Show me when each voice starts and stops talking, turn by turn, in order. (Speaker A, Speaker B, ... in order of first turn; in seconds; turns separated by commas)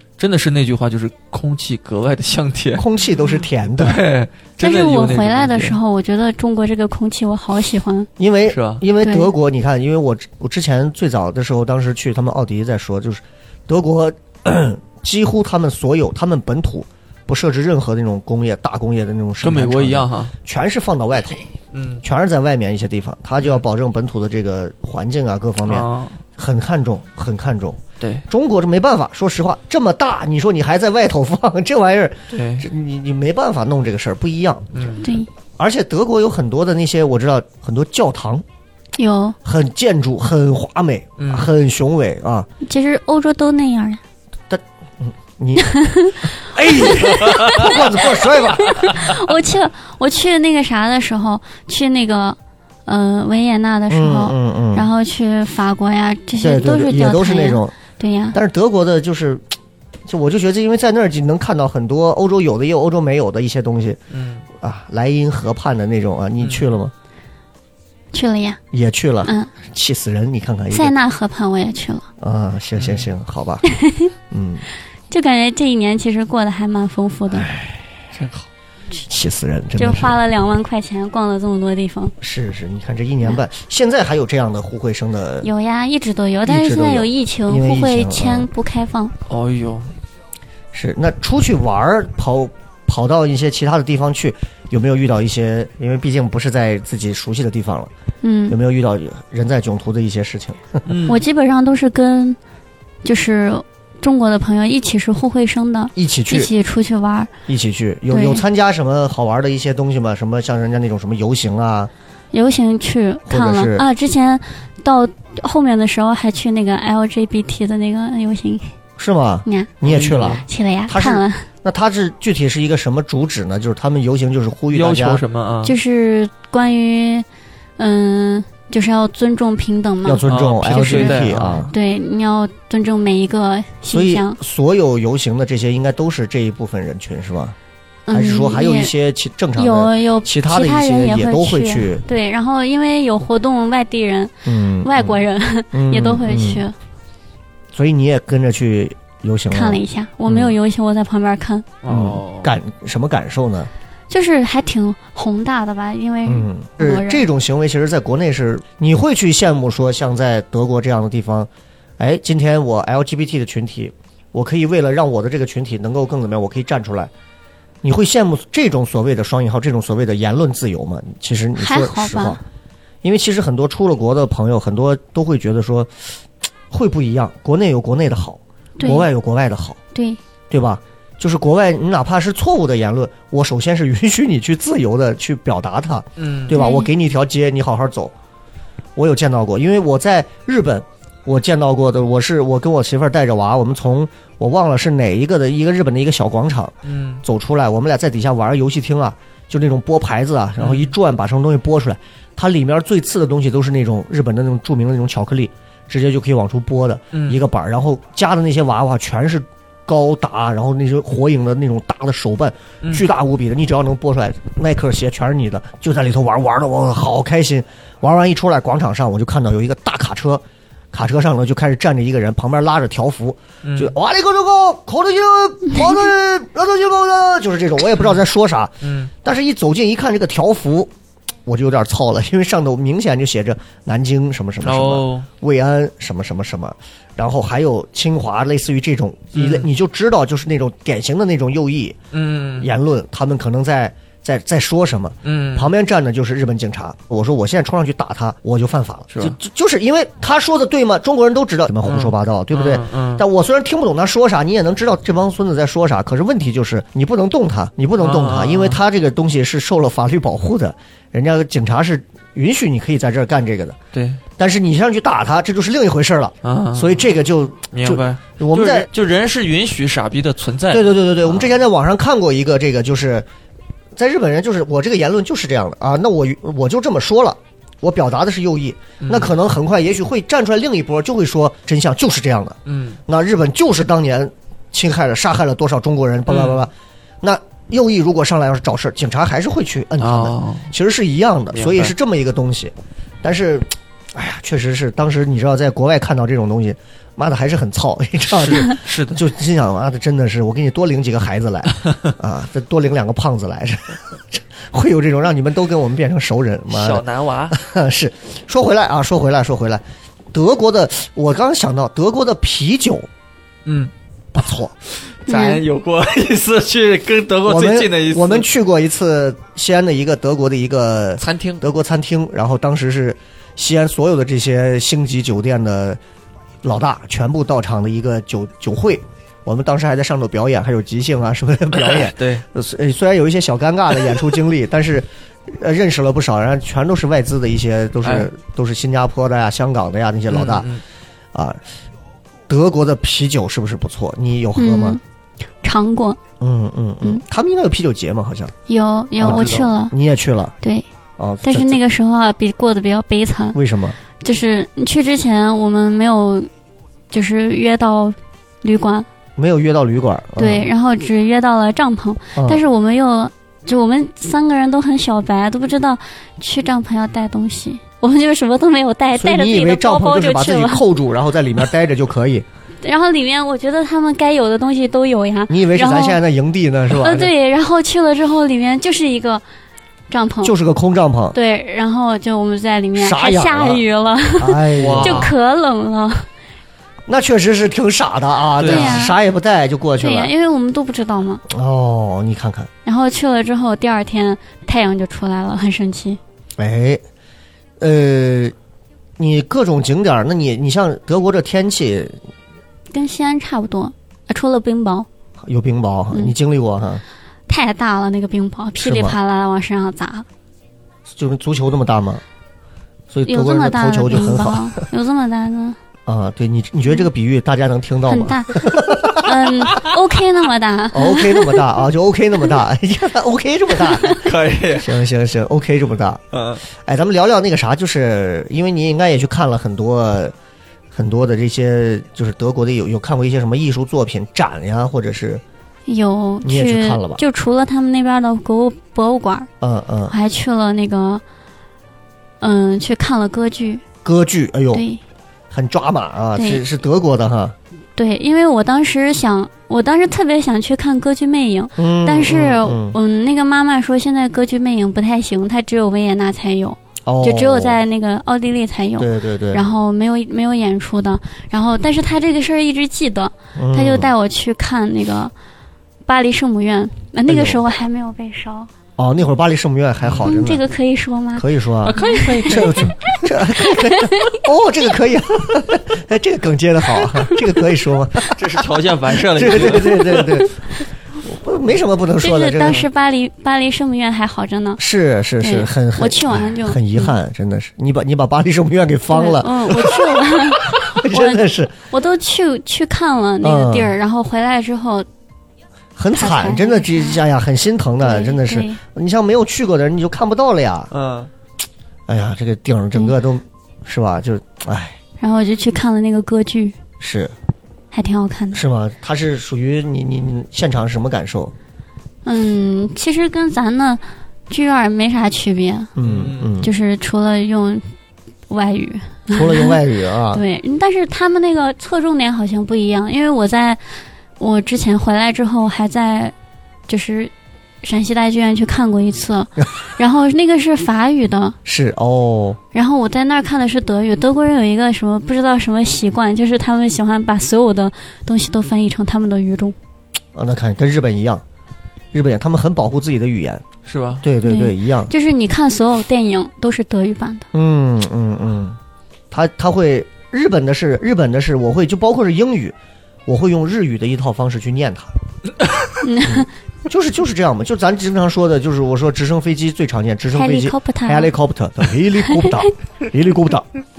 Speaker A: 0.2-2.9, Speaker B: 2.8-4.0, Speaker A: 3.8-5.8, Speaker C: 4.6-8.1, Speaker B: 8.2-21.4, Speaker A: 8.5-8.8, Speaker C: 9.0-9.3, Speaker A: 19.4-20.3, Speaker A: 21.7-22.0, Speaker B: 22.0-34.7, Speaker A: 25.6-26.2, Speaker A: 28.0-28.3, Speaker A: 32.3-32.7, Speaker A: 34.7-35.1, Speaker C: 35.0-35.3, Speaker B: 35.6-38.4, Speaker C: 39.0-39.4, Speaker B: 39.5-42.5, Speaker A: 41.2-41.5, Speaker C: 42.6-44.0, Speaker B: 44.5-45.7, Speaker C: 45.6-47.8, Speaker B: 46.2-49.1, Speaker A: 47.1-47.6, Speaker C: 48.4-58.4, Speaker B: 53.9-54.9, Speaker B: 56.4-57.8, Speaker B: 58.3-59.4, Speaker B: 60.1-64.0, Speaker A: 64.1-64.5, Speaker B: 64.6-66.9, Speaker A: 66.4-66.7, Speaker C: 68.1-68.6, Speaker B: 68.7-70.9, Speaker C: 69.2-69.5, Speaker C: 70.7-72.1, Speaker B: 72.2-73.7, Speaker A: 72.8-73.1, Speaker C: 73.7-74.1, Speaker B: 74.3-74.6, Speaker C: 75.1-77.5, Speaker B: 77.3-77.9, Speaker A: 78.1-78.5, Speaker B: 79.0-80.2, Speaker C: 79.8-82.1, Speaker B: 82.2-85.5, Speaker C: 85.4-89.1, Speaker B: 86.5-88.5, Speaker A: 89.3-89.9, Speaker B: 90.7-97.9, Speaker C: 98.2-98.6, Speaker B: 98.5-100.8, Speaker A: 100.9-101.2, Speaker C: 101.1-102.4, Speaker C: 103.0-107.3, Speaker B: 106.0-106.5, Speaker B: 107.5-111.9, Speaker C: 108.1-108.4, Speaker C: 112.3-118.7, Speaker B: 113.3-113.8, Speaker B: 119.0-125.2, Speaker A: 119.8-120.5, Speaker C: 120.4-121.5, Speaker A: 124.7-125.8, Speaker C: 125.6-127.3, Speaker C: 127.8-130.2, Speaker B: 130.1-131.7, Speaker A: 130.3-131.7, Speaker C: 130.8-134.4, Speaker B: 133.9-137.6, Speaker C: 138.1-138.9, Speaker B: 138.1-142.0, Speaker C: 139.6-146.7, Speaker B: 144.4-145.2, Speaker B: 145.7-146.6, Speaker B: 147.7-150.6, Speaker C: 149.5-151.7, Speaker A: 151.8-152.5, Speaker B: 151.9-153.7, Speaker C: 154.1-157.2, Speaker B: 156.3-167.1, Speaker B: 167.8-172.4, Speaker C: 171.6-172.4, Speaker B: 173.0-176.1, Speaker B: 176.7-179.8, Speaker C: 178.8-179.1, Speaker C: 179.9-180.2, Speaker B: 180.5-188.1, Speaker A: 186.2-186.6, Speaker C: 186.5-186.9, Speaker B: 189.0-230.9, Speaker A: 196.8-197.2, Speaker A: 200.6-200.9, Speaker A: 207.1-207.4, Speaker A: 212.8-213.1, Speaker A: 223.6-223.9, Speaker A: 228.8-229.1, Speaker B: 231.5-242.0, Speaker A: 234.6-235.3, Speaker A: 239.3-239.7, Speaker A: 242.1-242.7, Speaker B: 242.6-263.8, Speaker A: 245.2-245.7, Speaker A: 249.1-249.4, Speaker A: 251.9-253.2, Speaker A: 258.0-258.8, Speaker A: 263.9-264.2, Speaker B: 264.4-268.9, Speaker A: 266.4-267.0, Speaker A: 267.7-271.6, Speaker B: 270.7-273.3, Speaker B: 274.0-313.1, Speaker A: 279.0-279.4, Speaker A: 282.7-283.0, Speaker A: 286.3-286.6, Speaker A: 290.0-290.7, Speaker A: 291.5-291.9, Speaker A: 298.3-299.2, Speaker A: 306.7-307.6, Speaker A: 313.7-313.9, Speaker B: 314.3-314.7, Speaker A: 314.9-318.5, Speaker C: 315.3-315.6, Speaker B: 317.5-326.0, Speaker A: 321.2-321.6, Speaker B: 326.6-340.7, Speaker A: 331.8-332.4, Speaker A: 338.0-338.3, Speaker A: 340.3-340.8, Speaker B: 341.3-341.6, Speaker B: 342.5-345.0, Speaker C: 344.6-345.0, Speaker C: 345.6-346.2, Speaker B: 346.4-348.5, Speaker C: 348.7-349.9, Speaker B: 349.2-350.5, Speaker A: 349.2-349.7, Speaker C: 350.6-350.9, Speaker B: 351.2-351.8, Speaker C: 351.4-353.6, Speaker B: 353.5-354.0, Speaker C: 354.2-356.5, Speaker C: 357.1-359.1, Speaker B: 359.4-360.7, Speaker C: 360.4-370.8, Speaker B: 362.4-362.6, Speaker B: 369.1-372.5, Speaker C: 372.8-376.2, Speaker B: 375.5-377.3, Speaker C: 376.9-379.4, Speaker C: 380.1-380.6, Speaker B: 380.4-381.4, Speaker C: 381.3-386.3, Speaker B: 383.0-383.8, Speaker B: 384.4-385.3, Speaker A: 384.8-385.4, Speaker B: 387.1-390.3, Speaker A: 388.6-389.0, Speaker C: 388.6-389.2, Speaker C: 390.0-391.4, Speaker B: 391.5-392.7, Speaker C: 392.9-396.2, Speaker B: 396.6-397.0, Speaker B: 397.8-398.5, Speaker B: 399.2-402.2, Speaker C: 402.9-405.1, Speaker B: 405.4-407.0, Speaker C: 407.5-410.3, Speaker B: 408.8-409.2, Speaker B: 411.1-412.2, Speaker B: 413.1-414.8, Speaker C: 413.3-415.8, Speaker B: 416.1-419.7, Speaker C: 418.1-421.7, Speaker B: 420.9-424.2, Speaker A: 424.1-425.0, Speaker B: 424.8-430.3, Speaker A: 426.3-426.6, Speaker B: 430.9-435.4, Speaker C: 435.9-439.5, Speaker B: 436.4-437.2, Speaker B: 439.6-440.1, Speaker C: 440.1-441.2, Speaker C: 442.4-443.8, Speaker B: 444.0-444.9, Speaker C: 444.7-445.0, Speaker B: 445.5-447.6, Speaker C: 446.4-446.6, Speaker C: 448.0-465.3, Speaker B: 451.8-453.0, Speaker B: 457.1-457.8, Speaker B: 459.0-459.7, Speaker B: 463.6-464.1, Speaker C: 466.1-468.7, Speaker B: 467.3-467.6, Speaker B: 469.0-470.6, Speaker A: 470.0-470.3, Speaker C: 470.2-474.4, Speaker B: 471.4-478.6, Speaker A: 471.8-473.1, Speaker A: 478.3-480.4, Speaker B: 479.3-480.5, Speaker B: 481.2-482.9, Speaker C: 482.2-484.8, Speaker B: 484.8-491.7, Speaker C: 485.4-487.1, Speaker C: 489.1-495.1, Speaker B: 493.4-493.9, Speaker B: 496.0-500.9, Speaker C: 496.1-497.2, Speaker C: 498.0-498.8, Speaker A: 500.9-501.3, Speaker B: 502.1-505.0, Speaker C: 505.2-506.8, Speaker B: 507.0-507.3, Speaker C: 507.9-508.6, Speaker B: 508.5-511.5, Speaker C: 512.2-515.9, Speaker B: 516.0-516.7, Speaker A: 516.0-516.5, Speaker C: 516.6-517.9, Speaker C: 518.5-519.8, Speaker B: 519.3-520.4, Speaker C: 520.3-526.3, Speaker C: 526.9-527.3, Speaker C: 527.8-531.6, Speaker B: 531.6-532.6, Speaker C: 532.7-539.8, Speaker B: 540.4-541.4, Speaker B: 542.1-543.6, Speaker A: 543.9-544.2, Speaker B: 544.2-545.1, Speaker C: 544.4-547.5, Speaker B: 547.5-548.8, Speaker B: 549.3-552.8, Speaker B: 553.3-555.1, Speaker C: 556.0-556.5, Speaker B: 556.2-563.7, Speaker C: 560.3-561.3, Speaker C: 562.3-562.7